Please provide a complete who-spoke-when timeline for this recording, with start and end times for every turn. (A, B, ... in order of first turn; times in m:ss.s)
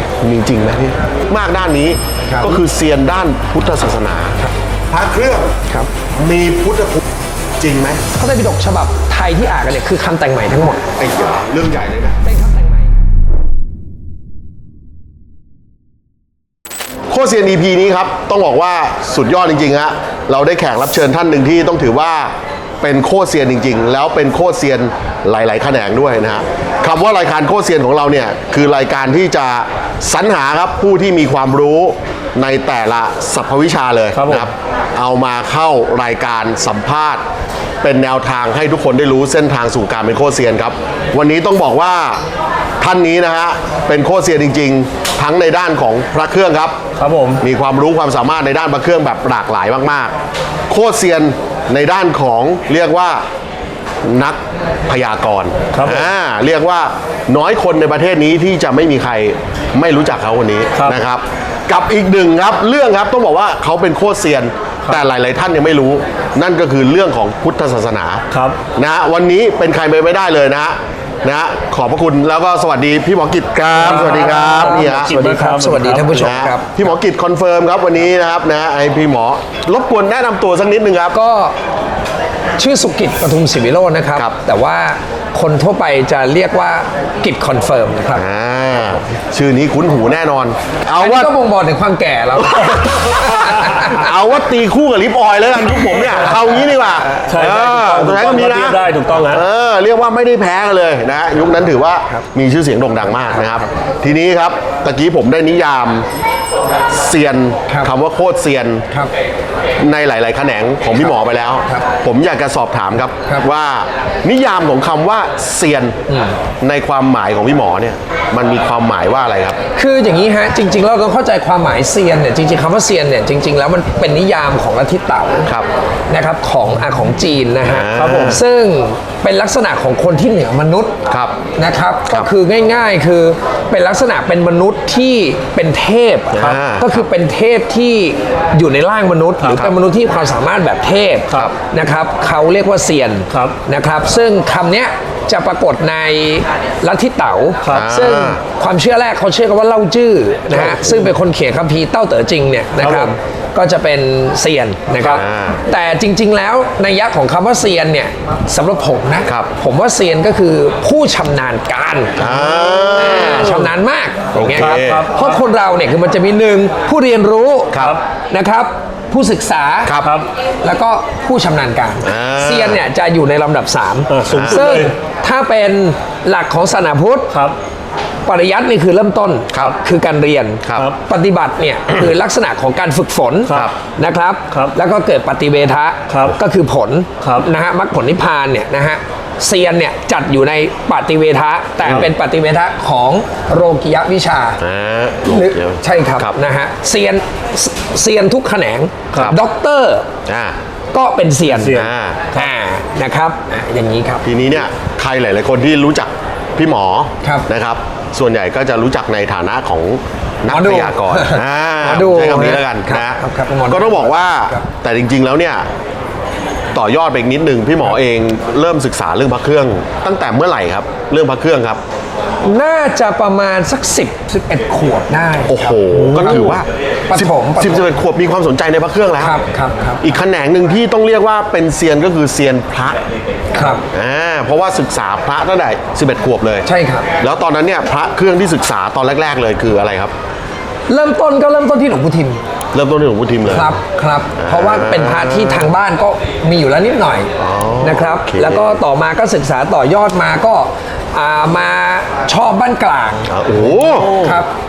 0:00.2-0:04.4 A
0:02.3-0:02.6 B
0:04.9-0:05.6 A
0:06.2-0:07.0 A
0:07.6-0:08.0 A
0:08.2-0:10.9 B
0:11.0-0:12.2 A
0:12.2-0:13.0 B
0:17.1-0:37.2 A
0:34.1-0:34.5 C
0:37.8-0:42.2 A
0:42.8-0:46.8 A
0:47.0-0:47.4 C
0:47.4-0:50.1 A
0:50.7-0:53.2 A
0:54.0-1:08.2 A
0:55.7-0:56.1 C
1:08.3-1:08.6 C
1:08.8-1:15.1 A
1:13.8-1:16.4 C
1:13.8-1:16.9 B
1:16.1-1:21.2 A
1:21.1-1:21.6 B
1:22.6-1:28.2 B
1:28.1-1:31.3 A
1:31.0-1:34.1 B
1:32.6-1:46.1 A
1:37.3-1:39.4 C
1:43.3-1:43.6 B
1:46.9-1:48.8 A
1:49.8-1:56.0 A
1:56.1-1:56.4 B
1:56.6-1:59.6 A
1:59.8-2:05.5 B
2:06.1-2:10.9 B
2:07.6-2:08.4 A
2:07.9-2:08.4 C
2:11.1-2:11.4 A
2:11.6-2:50.0 B
2:16.3-2:17.0 A
2:19.4-2:19.7 C
2:23.3-2:23.6 C
2:27.6-2:27.9 C
2:27.7-2:28.4 A
2:30.5-2:31.1 A
2:32.8-2:33.1 C
2:35.1-2:35.6 A
2:42.2-2:43.7 A
2:42.2-2:42.9 C
2:44.3-2:45.1 A
2:44.5-2:45.4 C
2:49.8-2:50.1 A
2:50.0-2:50.3 C
2:50.6-2:57.3 B
2:52.0-2:52.8 A
2:54.1-2:55.0 C
2:54.3-2:54.9 A
2:57.3-2:57.6 C
2:58.3-3:14.6 B
3:00.6-3:00.9 A
3:00.7-3:01.0 C
3:03.5-3:03.8 A
3:06.1-3:06.4 C
3:07.2-3:07.5 C
3:14.6-3:16.4 A
3:15.3-3:20.1 B
3:20.3-3:20.6 A
3:20.9-3:24.3 B
3:21.5-3:22.5 C
3:21.7-3:22.3 A
3:24.2-3:35.7 A
3:30.5-3:34.6 B
3:36.7-3:41.8 A
3:42.4-3:48.0 B
3:45.5-3:49.4 A
3:49.2-3:50.2 B
3:50.0-3:53.0 A
3:53.6-3:53.8 B
3:53.6-3:56.6 A
3:56.6-3:57.1 B
3:57.2-4:00.1 A
4:00.9-4:02.4 B
4:02.7-4:03.8 A
4:03.5-4:07.3 B
4:04.4-4:05.7 A
4:07.4-4:08.8 A
4:07.8-4:14.5 B
4:13.3-4:14.1 A
4:13.8-4:14.4 C